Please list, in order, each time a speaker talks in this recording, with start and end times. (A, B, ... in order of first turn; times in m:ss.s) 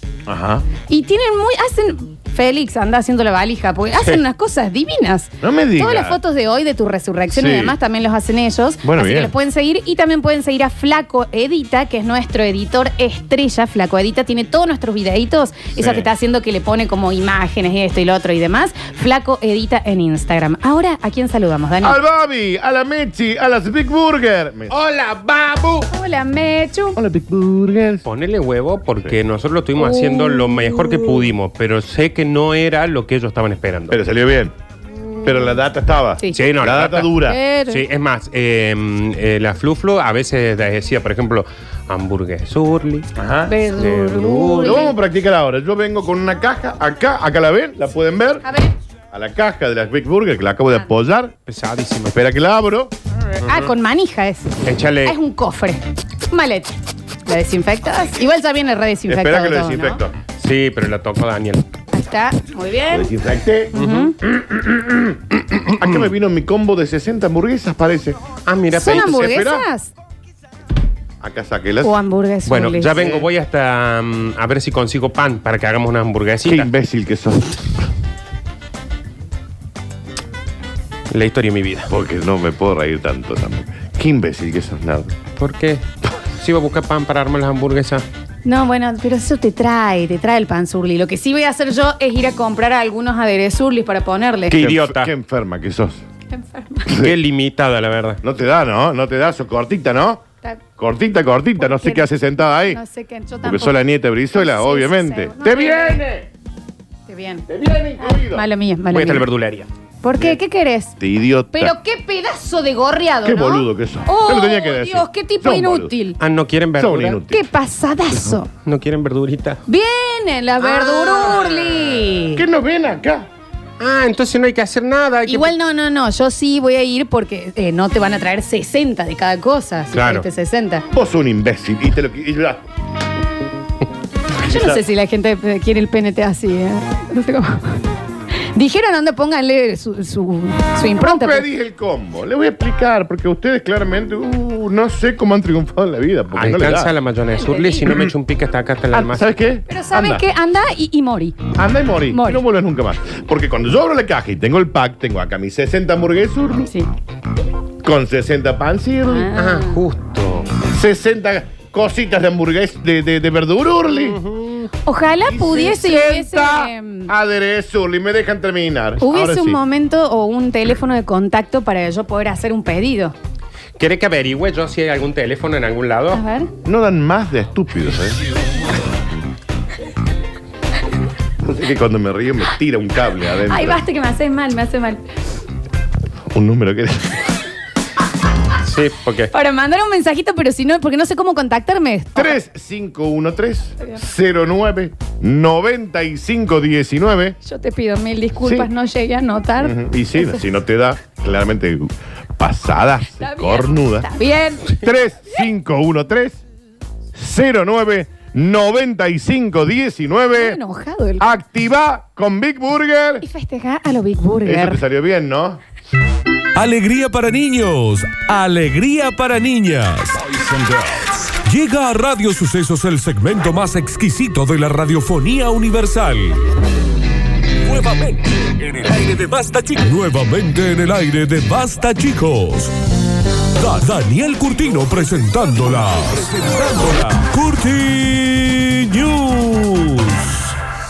0:00.2-0:00.6 A
0:00.9-0:22.0 B
0:05.4-0:06.2 A
0:07.3-0:07.7 A
0:08.8-0:09.3 A
0:21.8-0:24.7 A
0:24.7-0:25.9 C
0:25.9-0:27.0 B
0:27.0-0:28.0 A
0:28.0-0:34.0 C
0:29.8-0:31.3 B
0:33.9-0:34.5 A
0:35.2-0:37.4 A
0:36.2-0:36.4 B
0:36.3-0:43.1 C
0:37.2-0:37.8 B
0:43.1-0:43.6 A
0:43.5-0:44.9 B
0:43.7-0:44.9 C
0:44.6-0:48.4 A
0:48.4-0:48.7 B
0:49.1-0:51.3 A
0:51.4-0:52.2 C
0:52.1-0:52.9 A
0:53.4-1:00.0 B
0:53.4-0:53.7 C
0:54.6-0:55.2 C
0:59.1-1:00.2 A
1:00.4-1:01.6 C
1:01.9-1:03.1 B
1:02.9-1:08.2 A
1:03.7-1:04.1 B
1:03.7-1:04.1 C
1:05.6-1:06.0 C
1:08.5-1:09.2 C
1:08.7-1:09.9 B
1:08.8-1:09.7 A
1:11.2-1:12.0 A
1:11.8-1:13.0 B
1:12.4-1:16.7 C
1:13.0-1:13.2 A
1:16.4-1:17.9 A
1:21.1-1:21.9 C
1:21.9-1:25.2 A
1:25.4-1:28.0 C
1:28.4-1:34.5 B
1:34.5-1:35.1 C
1:34.5-1:36.0 A
1:36.3-1:37.0 B
1:36.8-1:37.2 A
1:36.9-1:38.2 C
1:38.2-1:40.2 A
1:40.8-1:42.8 A
1:41.6-1:42.0 B
1:42.6-1:43.8 B
1:43.4-1:46.3 A
1:44.3-1:46.0 B
1:47.1-1:47.5 B
1:47.5-1:48.5 A
1:48.0-1:49.2 B
1:48.9-1:49.7 C
1:50.0-1:50.9 B
1:51.0-1:51.7 A
1:51.5-1:56.2 B
1:53.2-1:56.0 A
1:56.2-1:57.2 C
1:56.8-1:57.5 A
1:57.3-1:58.5 B
1:58.6-1:59.6 C
1:59.7-2:02.4 B
2:00.6-2:02.0 C
2:02.3-2:03.3 A
2:03.8-2:05.5 C
2:05.2-2:10.8 B
2:09.9-2:10.2 C
2:10.9-2:12.7 A
2:14.4-2:14.8 A
2:14.4-2:17.8 B
2:18.4-2:21.4 B
2:21.0-2:27.0 A
2:26.3-2:29.3 C
2:27.4-2:27.8 B
2:28.9-2:30.2 A
2:29.7-2:31.5 B
2:31.5-2:36.7 A
2:32.1-2:32.4 B
2:37.8-2:39.3 A
2:39.0-2:39.8 B
2:39.3-2:40.5 C
2:40.7-2:44.2 A
2:44.0-2:44.7 C
2:44.8-2:47.1 B
2:45.2-2:49.6 A
2:49.0-2:53.1 B
2:53.8-2:56.2 C
2:56.1-2:56.5 B
2:56.6-2:58.2 A
3:01.4-3:03.8 A
3:03.4-3:05.0 B
3:06.3-3:07.3 A
3:08.6-3:09.3 C
3:09.3-3:12.4 B
3:12.1-3:17.4 A
3:17.4-3:20.4 B
3:18.4-3:18.7 A
3:19.6-3:24.1 A
3:23.2-3:25.4 B
3:24.7-3:26.4 A
3:27.1-3:30.6 A
3:30.3-3:31.4 B
3:31.2-3:33.2 A
3:33.2-3:34.8 B
3:34.4-3:35.6 A
3:36.5-3:46.4 D
3:47.6-3:52.7 D
3:53.5-4:00.6 D